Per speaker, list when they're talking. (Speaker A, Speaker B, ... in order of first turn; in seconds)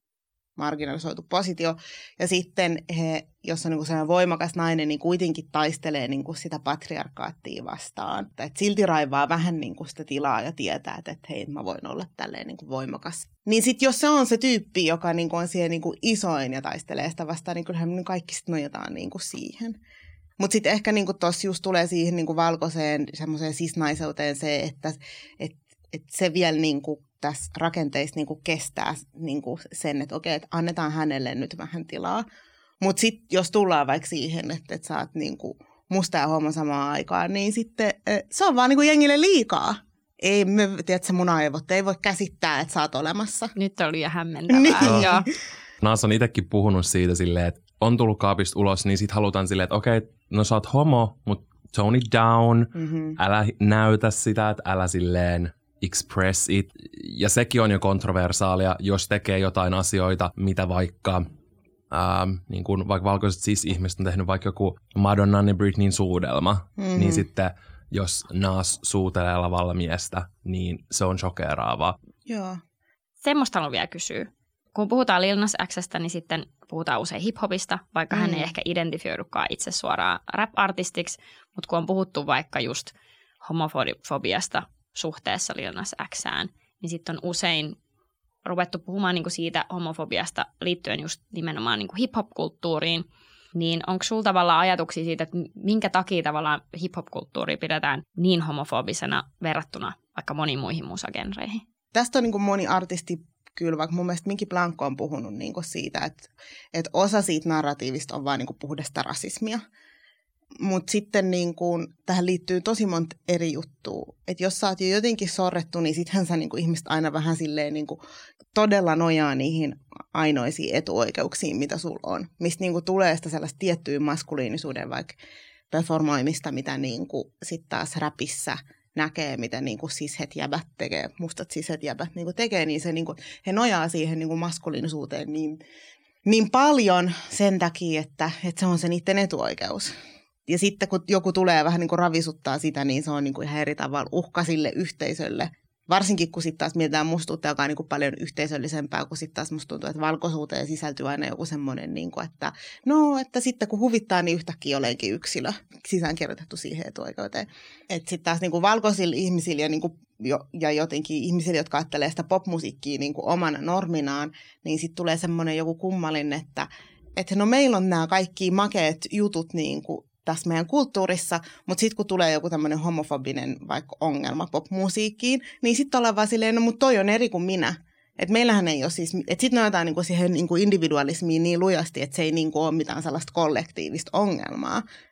Speaker A: 0.6-19.8, 20.4-32.2, 32.8-43.5, 44.5-45.2, 52.8-53.2, 66.8-67.3, 72.3-72.6, 78.1-78.5, 101.9-109.6, 110.6-118.0, 118.5-125.2, 125.7-135.6, 136.2-139.9, 140.5-184.8
Speaker B: 43.6-45.3, 73.2-87.8, 88.5-101.6
Speaker C: 44.8-45.1, 45.8-61.3, 61.9-72.0